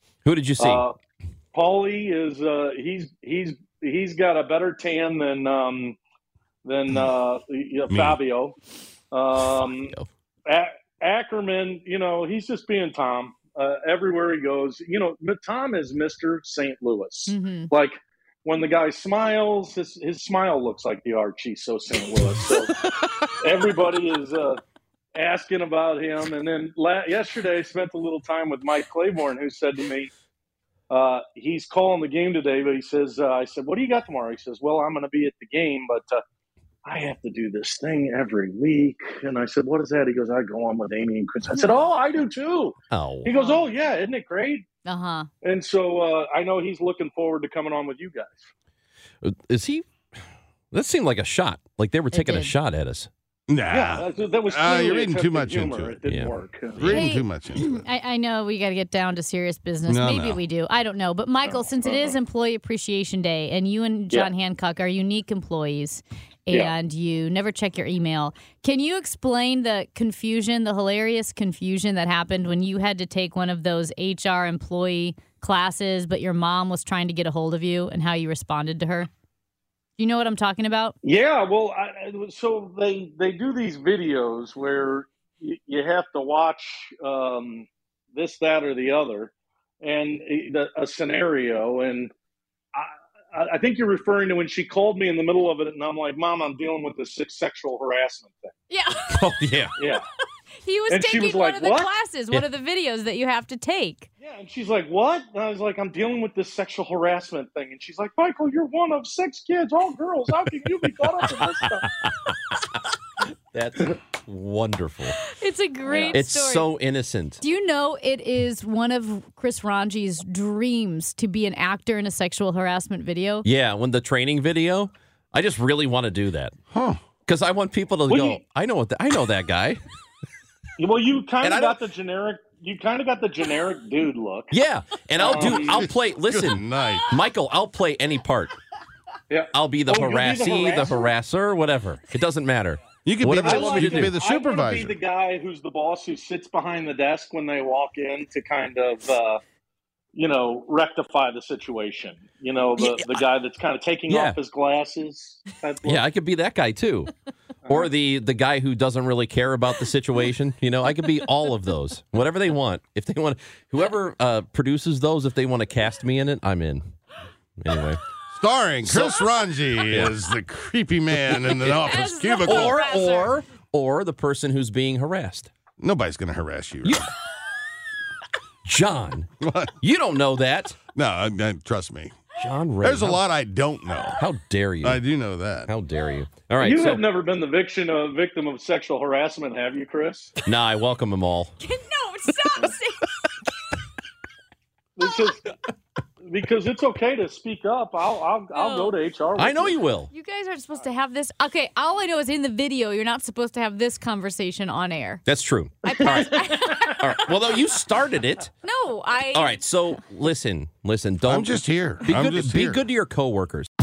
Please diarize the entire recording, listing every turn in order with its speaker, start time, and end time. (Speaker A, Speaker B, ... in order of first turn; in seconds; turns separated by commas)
Speaker A: 0.2-0.8, Speaker B: 0.6-1.0, Speaker B: 1.5-6.0, Speaker B: 6.6-8.6, Speaker C: 7.9-8.2, Speaker B: 9.1-9.9, Speaker A: 9.5-10.1, Speaker B: 10.5-22.7, Speaker D: 17.3-17.7, Speaker B: 23.4-24.6, Speaker B: 25.1-30.1, Speaker B: 30.9-36.2, Speaker B: 36.9-44.7, Speaker A: 42.9-43.3, Speaker D: 43.3-43.7, Speaker D: 44.9-45.3, Speaker B: 45.4-48.5, Speaker A: 49.2-50.1, Speaker A: 50.7-53.1, Speaker D: 52.1-52.5, Speaker C: 53.5-56.0, Speaker B: 53.7-57.0, Speaker A: 56.1-56.9, Speaker C: 56.8-57.9, Speaker D: 56.9-79.1, Speaker C: 59.9-60.4, Speaker B: 61.4-62.2, Speaker B: 66.5-66.8, Speaker D: 80.0-81.0, Speaker B: 81.0-92.1, Speaker B: 92.7-98.5, Speaker D: 98.7-99.3, Speaker A: 99.1-99.7, Speaker B: 99.8-100.0, Speaker D: 100.6-104.1, Speaker B: 100.9-101.9, Speaker B: 104.2-111.9, Speaker A: 111.2-112.5, Speaker A: 113.5-115.2, Speaker D: 115.2-116.7, Speaker B: 115.8-116.2, Speaker A: 116.1-117.4, Speaker D: 117.4-123.5, Speaker A: 123.5-126.5, Speaker C: 126.7-127.0, Speaker A: 127.3-129.8, Speaker B: 128.1-128.4, Speaker B: 130.8-134.6, Speaker A: 131.4-131.8, Speaker A: 134.5-138.6, Speaker B: 135.2-135.9, Speaker C: 135.2-137.1, Speaker B: 139.3-141.1, Speaker A: 139.5-144.2, Speaker C: 143.1-145.0, Speaker B: 143.4-149.4, Speaker B: 150.1-156.1, Speaker A: 152.8-153.2, Speaker A: 154.1-154.4, Speaker A: 155.8-157.1, Speaker B: 157.7-157.9, Speaker A: 157.7-166.9, Speaker A: 167.6-168.0, Speaker C: 168.3-172.9, Speaker A: 168.8-169.2, Speaker A: 169.9-170.2, Speaker A: 171.3-175.5, Speaker D: 171.7-173.3, Speaker C: 175.8-177.1, Speaker A: 178.7-179.3, Speaker C: 179.4-179.7, Speaker A: 179.8-180.8, Speaker C: 180.9-182.2, Speaker A: 182.4-183.2, Speaker C: 182.8-184.2, Speaker A: 184.2-185.0, Speaker C: 184.8-185.7, Speaker A: 185.7-187.0, Speaker B: 186.6-190.4, Speaker A: 190.4-191.5, Speaker D: 191.6-193.2, Speaker B: 195.0-195.5, Speaker B: 196.2-199.9, Speaker D: 198.5-198.9, Speaker A: 199.4-200.1, Speaker D: 200.0-205.2, Speaker A: 205.2-208.6, Speaker D: 205.8-207.5, Speaker B: 206.0-206.7, Speaker D: 208.6-209.6, Speaker A: 209.3-213.7, Speaker C: 211.2-212.8